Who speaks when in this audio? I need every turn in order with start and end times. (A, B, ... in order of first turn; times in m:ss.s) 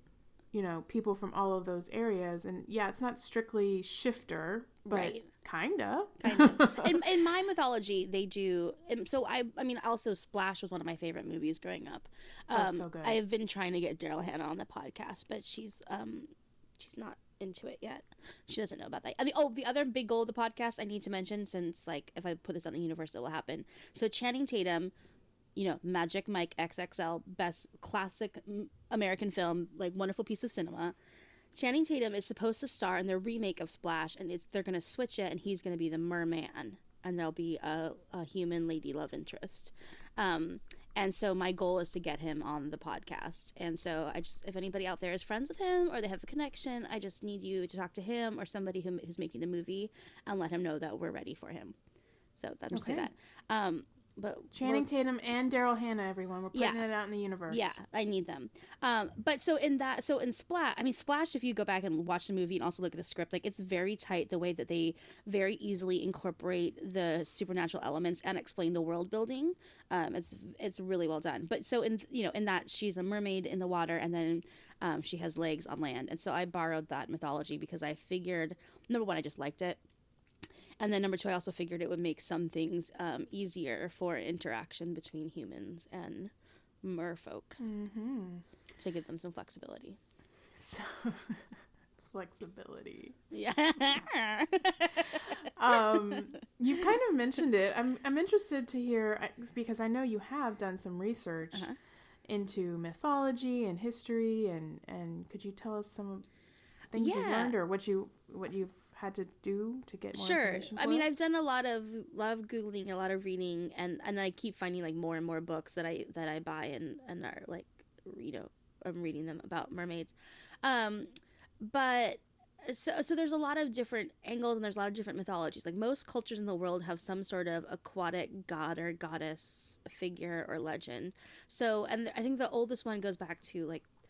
0:00.5-0:07.0 A
0:04.9-0:05.3 B
0:06.2-0:24.9 B
0:12.5-0:13.2 A
0:25.6-0:31.0 B
0:31.5-0:51.8 B
0:52.4-0:54.9 B
0:52.7-0:53.1 A
0:54.5-0:57.8 A
0:56.5-0:56.8 B
0:57.5-1:19.8 B
1:20.8-1:26.3 B
1:26.8-1:27.6 B
1:27.6-1:28.4 A
1:28.8-1:30.0 B
1:30.6-1:31.5 A
1:32.1-1:33.2 A
1:33.3-1:36.3 B
1:35.2-1:41.7 A
1:41.5-1:41.8 B
1:42.3-1:46.3 A
1:46.9-1:51.2 A
1:47.0-1:47.5 B
1:50.1-2:01.1 B
2:01.6-2:13.9 B